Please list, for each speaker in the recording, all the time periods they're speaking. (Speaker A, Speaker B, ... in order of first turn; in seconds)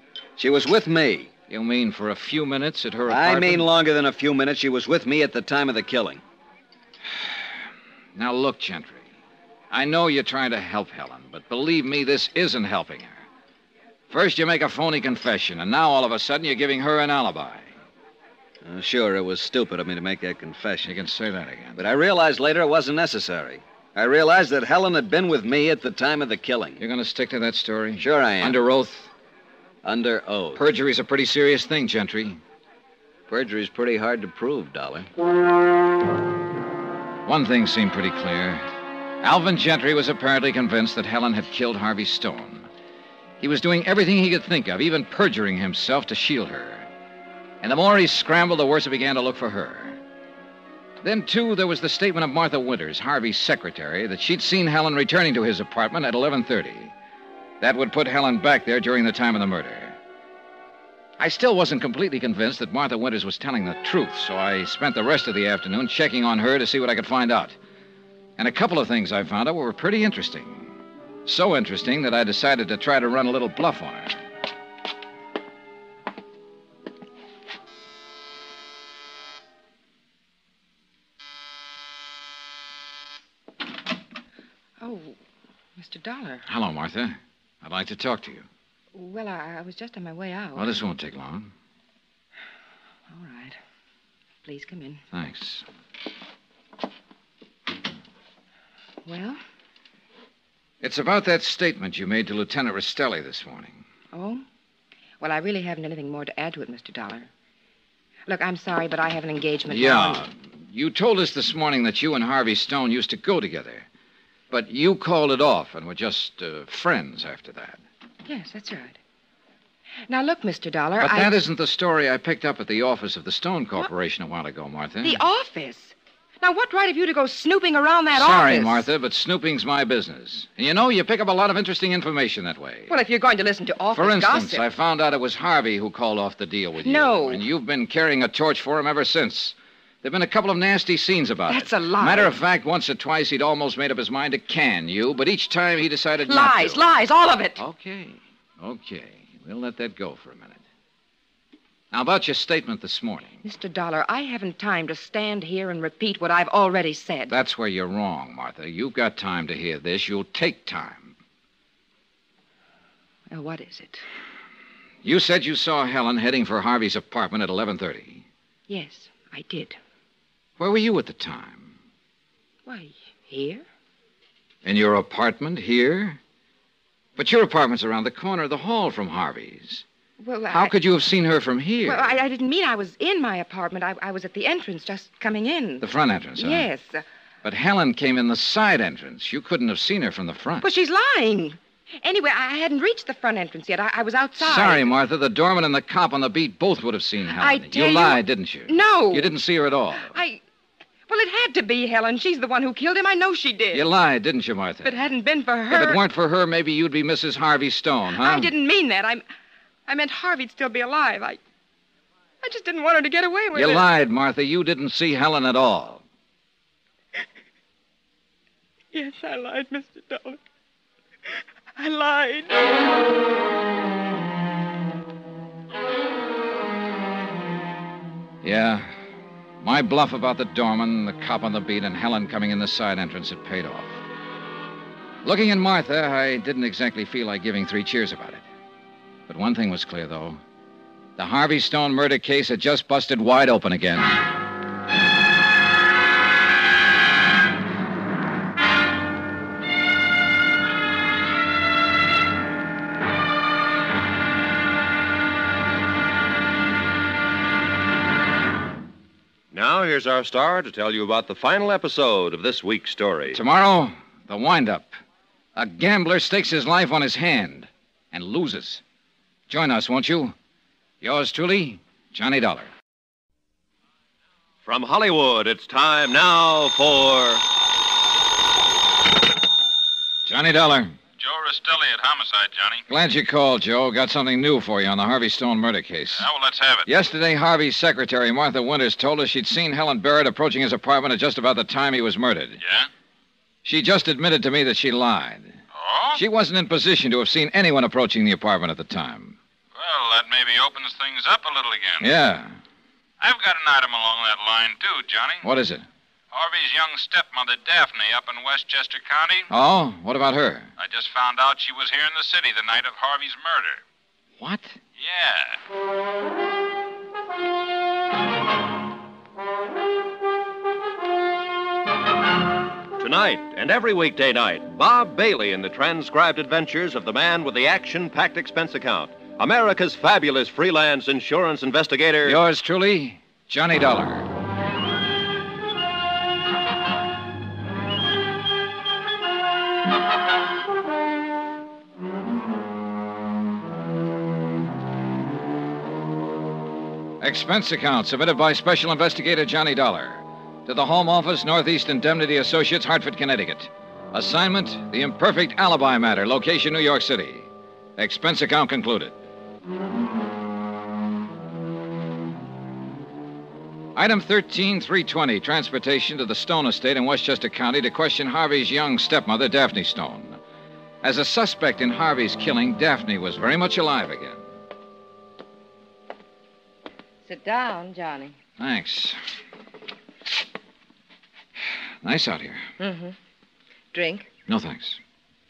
Speaker A: 0.4-1.3, 3.1-6.2, 18.6-20.9, 21.8-26.8, 28.0-28.6, 29.8-30.6, 33.3-35.1
Speaker B: 1.5-3.7, 8.1-9.1, 9.7-13.2, 14.1-17.7, 20.8-21.8, 26.8-29.1, 30.5-32.4, 37.2-38.7, 39.2-42.7, 43.4-46.9, 47.6-50.0, 51.0-56.9, 57.6-60.0, 61.2-67.6, 68.4-74.2, 86.5-88.5, 90.5-91.5, 95.1-95.6, 100.8-103.8, 109.7-113.9, 114.5-117.8, 121.0-125.2, 128.1-132.9, 133.9-146.8, 147.6-150.6, 151.9-153.4, 157.3-161.1, 165.0-168.2, 170.6-171.8, 174.6-176.2, 177.2-179.8, 180.5-182.2, 185.8-186.7, 187.4-190.7, 194.4-200.1, 203.7-205.0, 205.7-208.5, 213.5-216.0, 228.4-228.9, 229.6-234.0, 235.2-238.4, 239.3-240.4, 241.2-244.2, 263.3-265.0, 265.6-268.8, 269.5-270.3, 271.0-272.7, 280.2-281.0, 282.9-286.3, 286.9-292.6, 293.6-295.6, 296.1-299.4, 302.0-302.6, 305.4-305.9, 309.5-310.7, 314.4-314.8, 332.2-334.3, 347.2-359.1, 363.9-370.4, 371.0-374.4, 378.6-379.2, 382.0-382.6, 384.5-385.0
Speaker C: 84.8-85.2, 85.8-86.5, 88.9-90.8, 93.1-93.6, 94.4-95.0, 99.0-99.4, 104.1-104.4, 105.2-107.3, 108.3-110.2, 118.2-119.0, 120.1-121.3, 125.0-128.9, 132.9-134.7, 136.8-137.4, 141.5-142.3, 146.2-147.6, 153.4-157.3, 163.3-164.0, 168.7-169.8, 172.7-173.6, 180.2-180.7, 181.8-185.8, 186.3-187.0, 190.6-194.9, 197.3-199.3, 199.9-200.4, 201.1-203.8, 204.8-206.0, 208.2-209.2, 209.9-211.4, 212.4-213.8, 218.9-220.4, 221.8-222.6, 377.2-378.3, 382.8-383.1, 383.9-384.3
Speaker D: 259.5-263.4, 274.6-277.4, 323.0-332.4
Speaker E: 281.2-282.9, 286.2-286.9, 292.6-292.9, 295.7-296.2, 299.7-302.1, 303.2-305.4, 306.3-309.5, 310.8-313.8, 315.0-315.6